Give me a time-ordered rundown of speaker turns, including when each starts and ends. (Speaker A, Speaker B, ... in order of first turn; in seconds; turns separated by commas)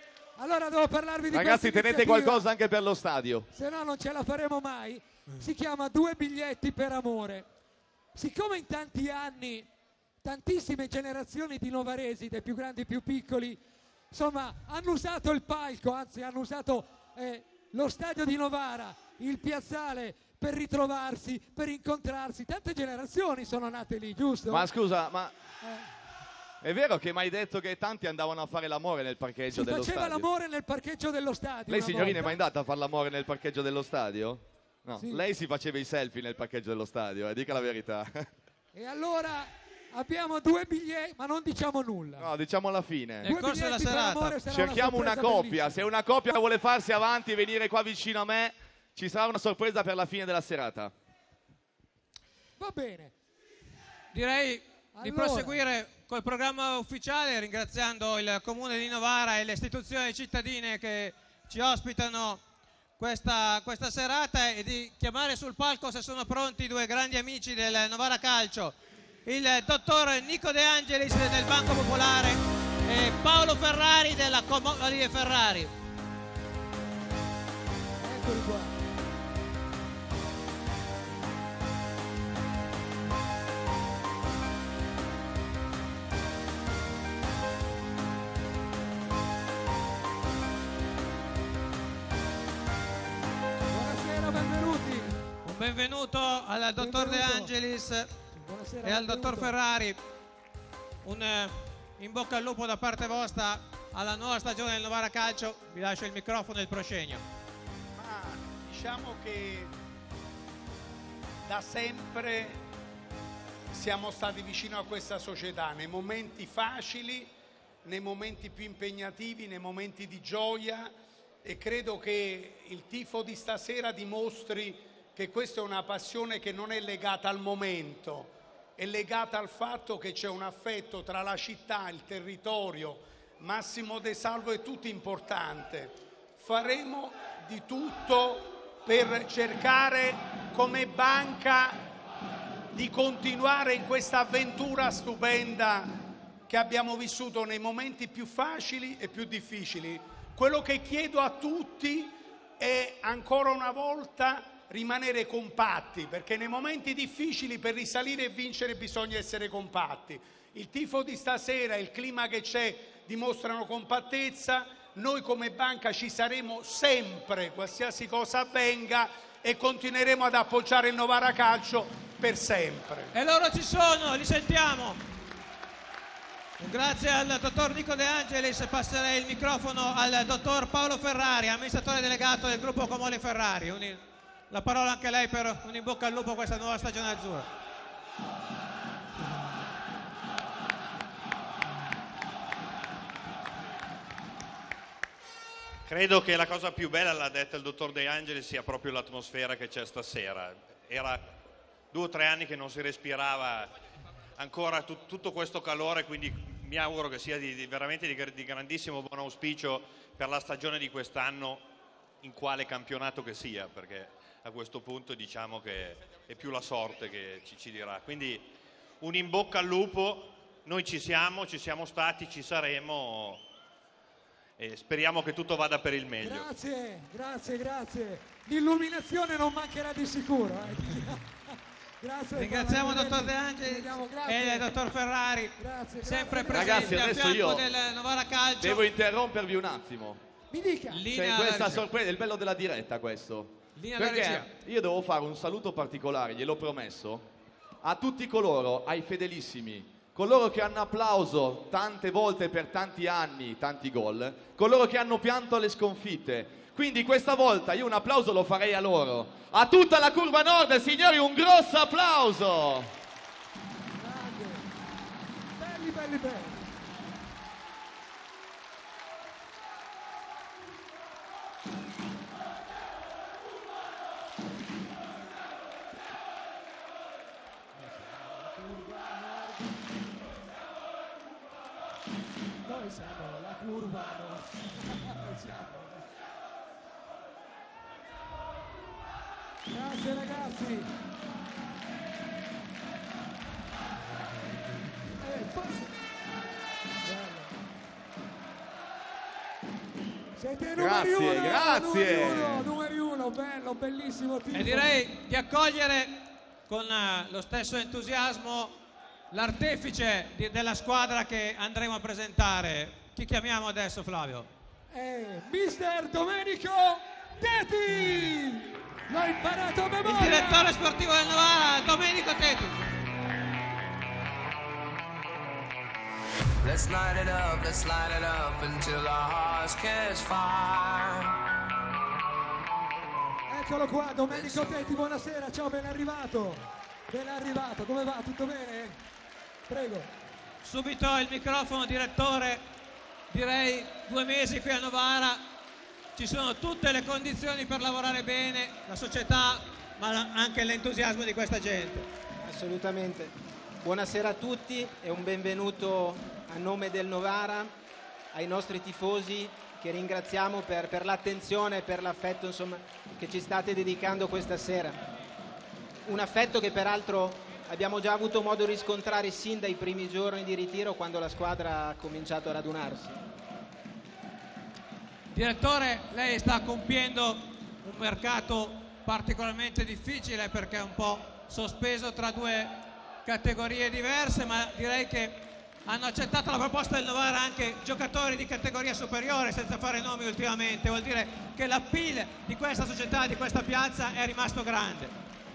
Speaker A: 0.4-2.4, Speaker B: 1.3-3.5, Speaker A: 3.5-7.5, Speaker A: 8.2-9.7, Speaker A: 10.2-24.7, Speaker B: 24.5-25.3, Speaker A: 25.6-25.9, Speaker B: 26.6-30.3, Speaker A: 29.5-32.3, Speaker B: 31.7-38.3, Speaker A: 38.7-42.3, Speaker B: 42.2-43.2, Speaker C: 43.2-44.4, Speaker A: 43.2-45.7, Speaker B: 44.5-50.9, Speaker A: 52.6-53.1, Speaker C: 54.1-62.4, Speaker A: 55.0-55.6, Speaker C: 63.0-75.7, Speaker A: 78.0-78.7, Speaker A: 93.7-95.2, Speaker C: 95.4-98.1, Speaker A: 96.8-97.5, Speaker A: 98.4-99.5, Speaker C: 98.8-100.0, Speaker C: 101.0-107.2, Speaker D: 108.0-109.7, Speaker D: 111.4-112.6, Speaker D: 113.7-117.3, Speaker D: 117.8-120.9, Speaker D: 121.4-141.8, Speaker D: 142.7-145.9, Speaker D: 146.5-173.1, Speaker C: 173.1-175.0, Speaker C: 176.6-187.5, Speaker E: 195.9-201.3, Speaker E: 201.9-203.7, Speaker E: 204.4-211.7, Speaker E: 212.2-223.5, Speaker E: 224.6-226.5, Speaker A: 226.2-231.3, Speaker A: 232.0-234.7, Speaker C: 232.3-238.9, Speaker A: 235.6-237.0, Speaker B: 236.5-237.6, Speaker B: 238.6-240.2, Speaker A: 240.5-241.0, Speaker C: 240.9-241.9, Speaker B: 241.1-247.3, Speaker C: 243.8-244.5, Speaker B: 247.8-262.9, Speaker A: 264.0-264.6, Speaker A: 265.6-266.6, Speaker A: 277.8-279.8, Speaker A: 282.6-286.0, Speaker A: 289.7-290.9, Speaker A: 295.2-295.9, Speaker A: 297.0-297.5, Speaker A: 300.4-304.9, Speaker B: 300.8-302.7, Speaker C: 304.5-308.8, Speaker C: 309.3-314.5, Speaker A: 314.9-320.7, Speaker C: 320.1-322.9, Speaker F: 326.6-331.5, Speaker A: 333.5-339.0, Speaker A: 339.7-340.1, Speaker C: 340.6-342.6, Speaker C: 343.3-345.4, Speaker C: 346.2-352.1, Speaker G: 352.4-357.7, Speaker G: 358.3-365.1, Speaker G: 366.1-373.2, Speaker C: 375.3-395.1